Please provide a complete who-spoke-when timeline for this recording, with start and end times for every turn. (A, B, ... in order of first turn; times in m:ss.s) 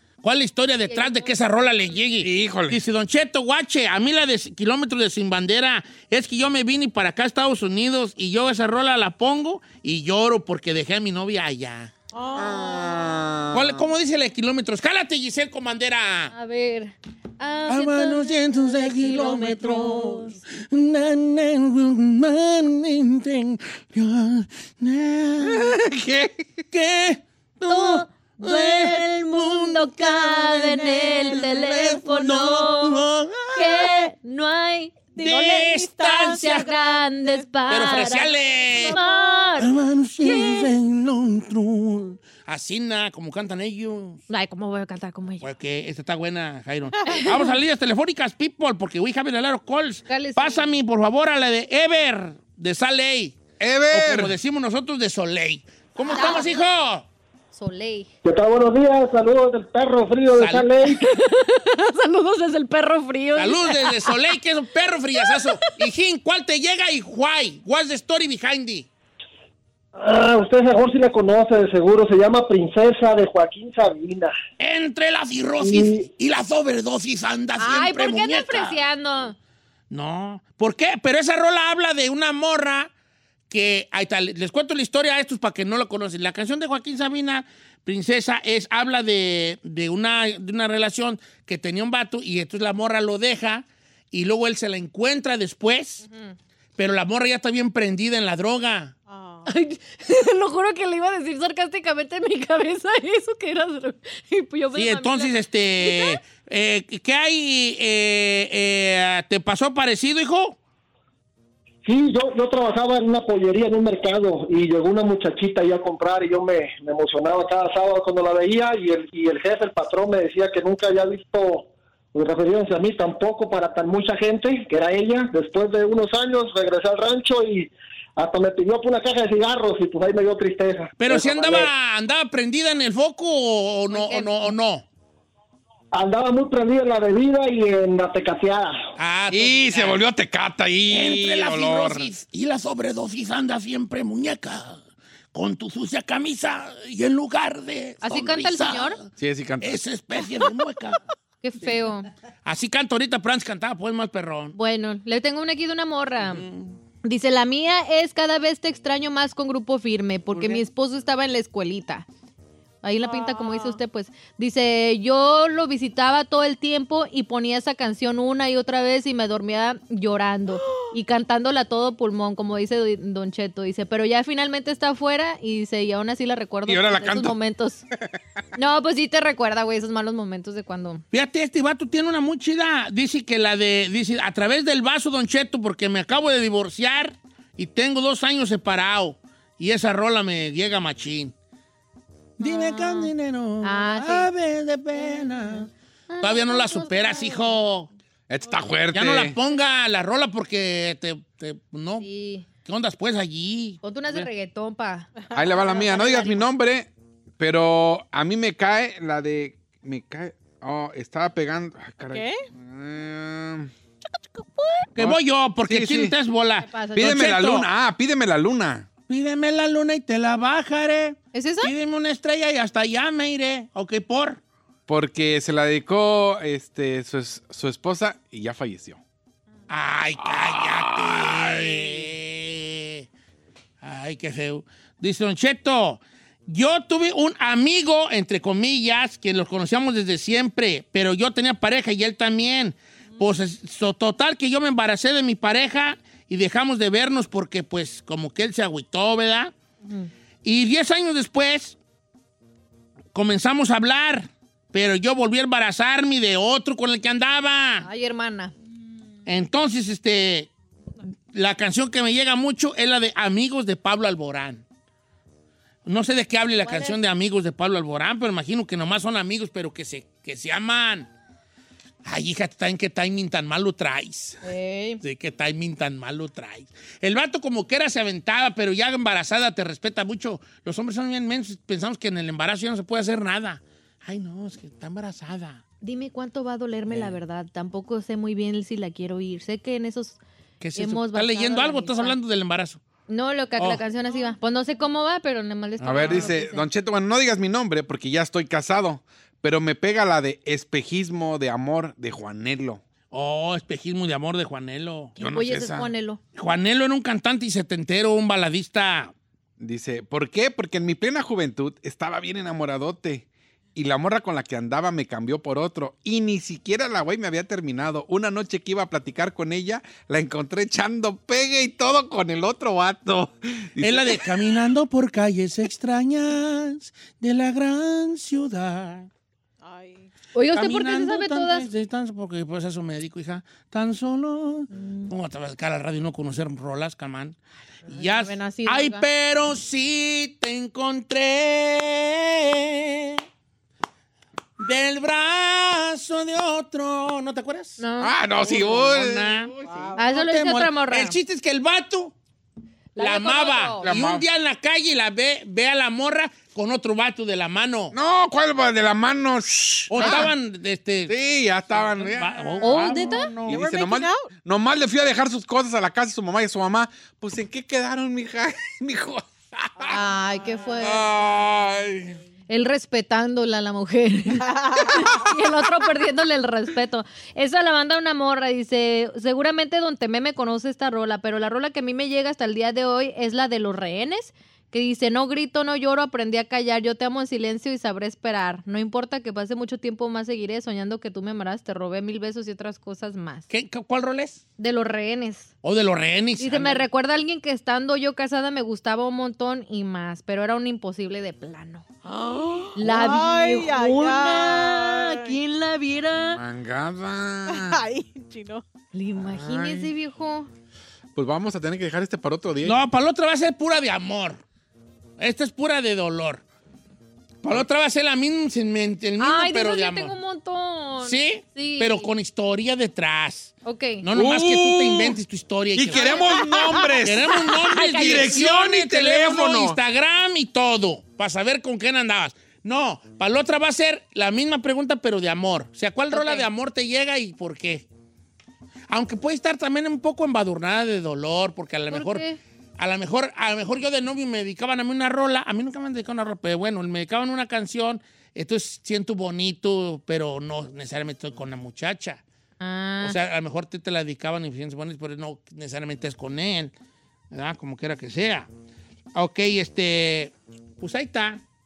0:00.2-0:11.9 A
0:00.9-0:01.6 B
0:02.2-0:02.8 C
0:12.1-0:13.1 D
0:12.4-0:13.8 C
0:13.5-0:16.3 A
0:16.3-0:20.4 B
0:17.7-0:25.8 A
0:25.4-0:26.5 C
0:26.7-0:34.0 A
0:27.7-0:35.4 B
0:35.2-0:38.0 D
0:35.2-0:36.7 A
0:36.3-0:40.7 B
0:37.7-0:39.0 A
0:38.7-0:39.5 D
0:39.6-0:44.2 A
0:44.3-0:45.5 B
0:45.4-0:53.4 A
0:50.1-0:50.7 B
0:53.6-0:54.4 C
0:53.9-0:57.0 A
0:56.0-0:56.5 B
0:57.5-0:58.1 B
0:58.2-1:01.1 E
1:00.4-1:00.7 A
1:00.9-1:04.2 B
1:03.4-1:08.9 A
1:05.2-1:05.8 B
1:10.0-1:14.4 E
1:14.6-1:18.8 A
1:15.6-1:16.0 E
1:17.6-1:19.4 B
1:19.9-1:22.9 A
1:23.5-1:36.0 A
1:36.8-1:38.9 A
1:39.1-1:39.5 D
1:39.4-1:46.2 B
1:44.7-1:50.6 A
1:51.8-2:11.7 E
2:11.0-2:14.8 A
2:13.9-2:14.5 B
2:15.9-2:18.8 E
2:19.0-2:20.0 A
2:19.3-2:22.1 C
2:20.9-2:24.8 A
2:25.3-2:29.1 A
2:28.0-2:29.0 B
2:29.2-2:29.8 C
2:29.6-2:31.0 A
2:31.4-2:32.1 B
2:32.4-2:34.6 A
2:34.5-2:36.4 B
2:36.2-2:36.8 A
2:37.0-2:42.1 B
2:40.3-2:40.6 A
2:42.8-2:57.9 B
2:43.0-2:43.8 D
2:50.6-2:50.9 D
2:56.7-2:57.4 C
2:58.6-3:01.0 B
3:01.1-3:11.3 A
3:12.4-3:15.7 A
3:12.4-3:13.1 B
3:13.6-3:14.3 B
3:16.1-3:17.5 B
3:16.2-3:17.9 A
3:18.3-3:19.4 C
3:18.9-3:22.1 A
3:22.0-3:22.5 B
3:22.6-3:24.3 A
3:23.8-3:25.1 B
3:25.2-3:26.2 D
3:25.3-3:33.7 C
3:26.0-3:26.2 B
3:32.1-3:32.4 D
3:35.0-3:37.7 A
3:35.0-3:36.2 C
3:36.6-3:37.4 B
3:37.0-3:38.9 C
3:39.1-3:44.4 A
3:41.3-3:41.7 B
3:44.9-3:49.0 C
3:49.7-3:53.1 A
3:50.2-3:52.1 C
3:53.8-4:09.5 A
4:10.4-4:11.8 A
4:13.1-4:17.9 A
4:17.8-4:18.5 B
4:19.3-4:20.5 A
4:21.3-4:24.6 A
4:25.9-4:31.1 A
4:26.6-4:27.0 B
4:32.0-4:34.4 A
4:34.4-4:35.0 B
4:35.0-4:45.6 A
4:45.8-4:50.2 B
4:46.9-4:47.2 A
4:50.6-4:52.8 A
4:50.8-4:52.2 B
4:53.1-4:56.7 B
4:53.6-4:53.8 A
4:55.8-4:56.3 A
4:55.8-5:02.8 C
5:03.1-5:05.1 A
5:05.2-5:06.2 B
5:05.2-5:05.9 C
5:06.4-5:09.1 A
5:09.6-5:24.6 C
5:23.8-5:29.1 A
5:29.6-5:30.1 D
5:30.4-5:31.7 B
5:30.5-5:37.4 A
5:34.7-5:35.1 B
5:37.9-5:39.0 B
5:37.9-5:43.2 A
5:44.6-5:47.8 A
5:47.8-5:48.1 B
5:48.0-5:50.0 C
5:48.4-5:49.5 A
5:49.6-5:50.1 D
5:50.0-5:51.2 B
5:50.0-5:52.1 A
5:53.0-5:53.9 B
5:53.0-5:57.9 A
5:53.8-5:54.2 C
5:57.9-6:00.3 C
5:59.9-6:01.1 A
6:00.0-6:00.3 B
6:01.1-6:02.8 C
6:01.7-6:03.6 A
6:02.6-6:03.3 B
6:03.5-6:04.3 D
6:03.5-6:10.0 C
6:09.9-6:11.0 B
6:10.8-6:12.2 C
6:12.5-6:33.5 B
6:14.4-6:15.3 D
6:33.5-6:34.4 A
6:34.6-6:35.5 B
6:35.6-6:36.9 A
6:36.4-6:41.9 B
6:42.0-6:45.4 D
6:42.8-6:46.4 B
6:46.4-6:47.8 C
6:47.5-6:48.6 D
6:48.9-6:50.5 B
6:49.2-6:49.9 C
6:51.2-6:52.8 C
6:52.6-6:54.4 A
6:55.2-6:56.4 A
6:57.4-7:00.2 A
6:59.2-7:02.1 B
7:01.0-7:06.2 A
7:03.6-7:04.0 B
7:04.1-7:05.2 C
7:05.8-7:09.8 C
7:05.9-7:08.3 B
7:07.0-7:17.9 A
7:16.1-7:16.5 B
7:18.9-7:22.3 A
7:21.9-7:22.4 B
7:22.8-7:32.2 A
7:32.6-7:33.2 B
7:33.0-7:36.7 A
7:37.3-7:38.5 A
7:39.2-7:41.4 A